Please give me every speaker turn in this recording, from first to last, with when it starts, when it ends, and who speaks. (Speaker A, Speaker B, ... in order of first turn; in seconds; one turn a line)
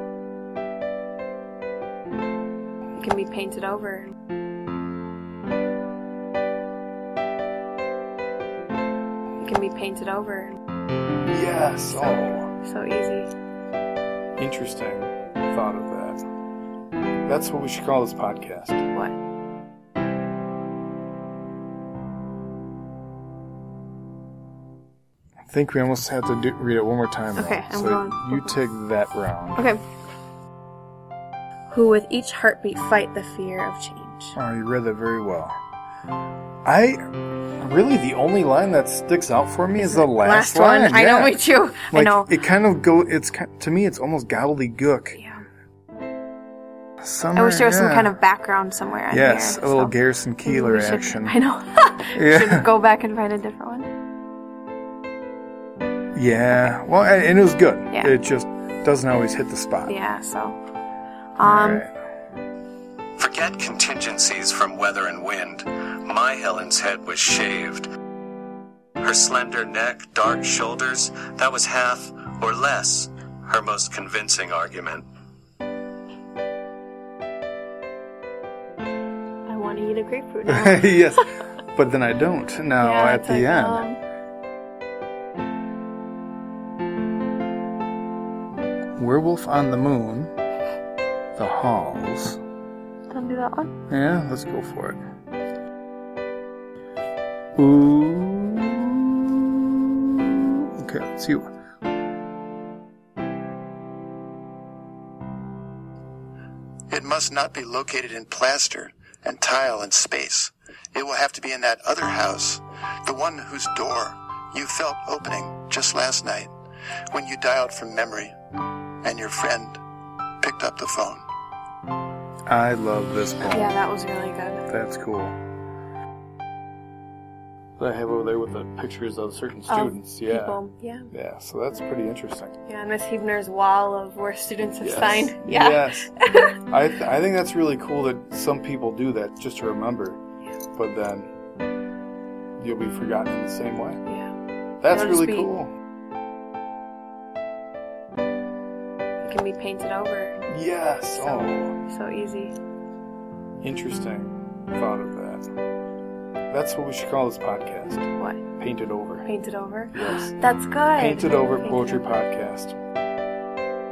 Speaker A: 3.0-4.1
Speaker A: 9.4-10.6
Speaker B: 11.2-12.5
Speaker A: 11.9-13.3
Speaker B: 14.4-16.2
Speaker B: 17.3-18.9
Speaker B: 25.5-29.6
Speaker A: 27.4-28.6
Speaker A: 29.6-29.8
Speaker A: 31.7-34.3
Speaker B: 34.3-35.5
Speaker B: 36.6-37.0
Speaker B: 37.6-45.2
Speaker A: 39.8-42.3
Speaker A: 45.1-45.4
Speaker B: 47.0-48.1
Speaker A: 47.3-53.9
Speaker B: 49.1-51.4
Speaker B: 52.1-52.7
Speaker B: 56.1-60.0
Speaker A: 59.9-60.6
Speaker A: 61.4-61.8
Speaker B: 61.4-61.9
Speaker C: 63.2-67.9
Speaker C: 69.0-75.1
Speaker A: 79.5-81.1
Speaker B: 80.5-83.9
Speaker A: 82.8-84.0
Speaker B: 89.0-90.3
Speaker B: 91.4-92.4
Speaker A: 93.1-93.7
Speaker B: 93.9-95.0
Speaker B: 97.6-101.5
Speaker D: 106.9-116.5
Speaker D: 117.1-118.3
Speaker D: 119.0-119.8
Speaker D: 120.4-121.2
Speaker B: 122.5-123.8
Speaker A: 123.5-124.7
Speaker B: 124.7-125.3
Speaker B: 127.8-130.6
Speaker A: 129.7-131.1
Speaker B: 131.1-132.6
Speaker A: 132.7-136.6
Speaker B: 134.8-136.1
Speaker B: 136.7-140.2
Speaker B: 140.8-141.3
Speaker B: 142.6-144.0
Speaker A: 144.1-144.3
Speaker B: 144.8-145.7
Speaker A: 144.9-145.5
Speaker A: 149.2-150.4
Speaker B: 150.5-151.8
Speaker A: 151.2-152.6
Speaker B: 153.6-155.5
Speaker B: 156.5-159.3
Speaker A: 159.2-162.1
Speaker B: 159.9-160.3
Speaker B: 161.0-162.8